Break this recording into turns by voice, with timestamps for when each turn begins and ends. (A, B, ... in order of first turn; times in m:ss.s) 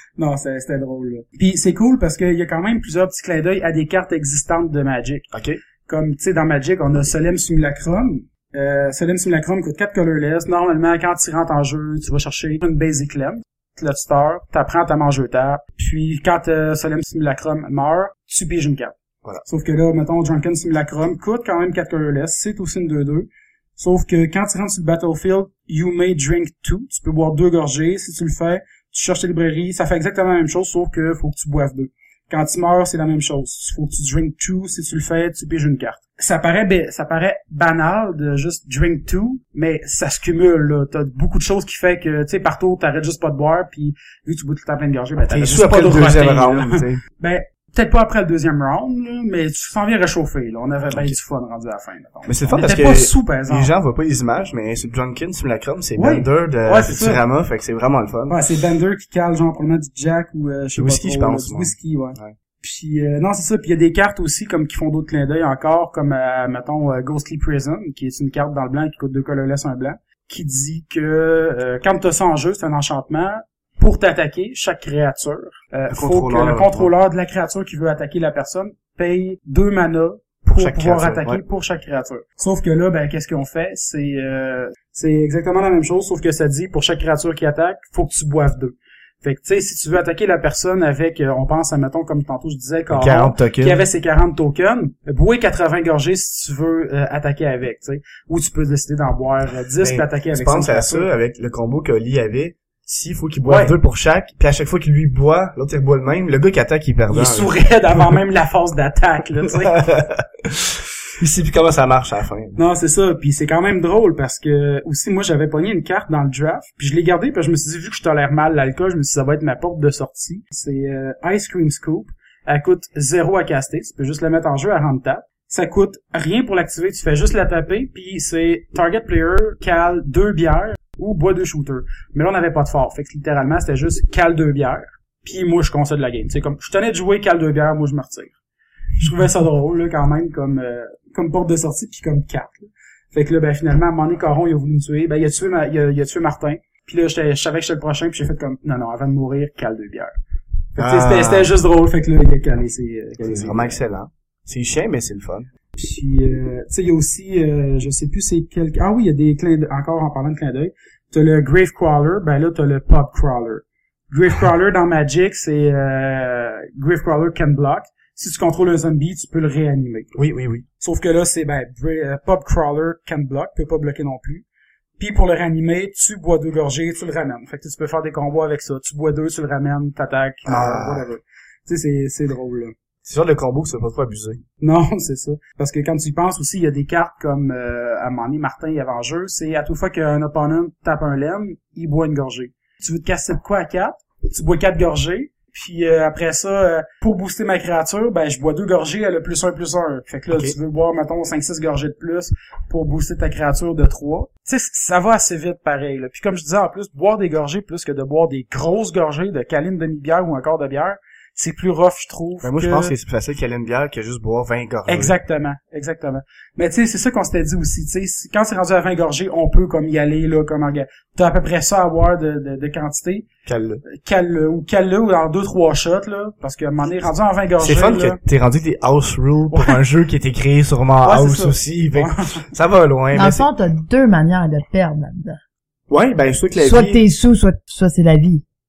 0:00.2-0:05.3 A
0:05.3-0:05.6 B
0:05.8-0:53.7 A
0:45.3-0:47.0 B
0:50.9-0:51.2 B
0:52.3-0:58.4 B
0:56.0-0:57.2 A
0:58.3-1:41.1 A
1:00.8-1:02.4 B
1:15.9-1:16.9 B
1:20.6-1:21.4 B
1:32.9-1:33.8 B
1:39.8-1:48.2 B
1:43.5-1:43.8 A
1:47.1-1:49.8 A
1:49.7-1:52.6 B
1:52.6-2:18.3 A
2:19.0-2:30.1 A
2:30.8-2:33.8 A
2:30.8-2:31.5 B
2:33.2-2:35.5 B
2:35.8-2:50.1 A
2:50.1-2:50.6 B
2:50.8-2:54.4 A
2:55.0-3:02.8 A
3:00.5-3:01.1 B
3:03.0-3:04.4 B
3:04.6-3:32.9 A
3:32.4-3:35.1 B
3:34.9-3:43.3 A
3:43.5-3:43.8 B
3:43.8-3:48.2 A
3:47.6-3:53.5 B
3:49.5-3:49.8 A
3:51.0-3:52.5 A
3:53.2-3:55.4 C
3:55.9-3:57.0 B
3:56.6-3:58.4 C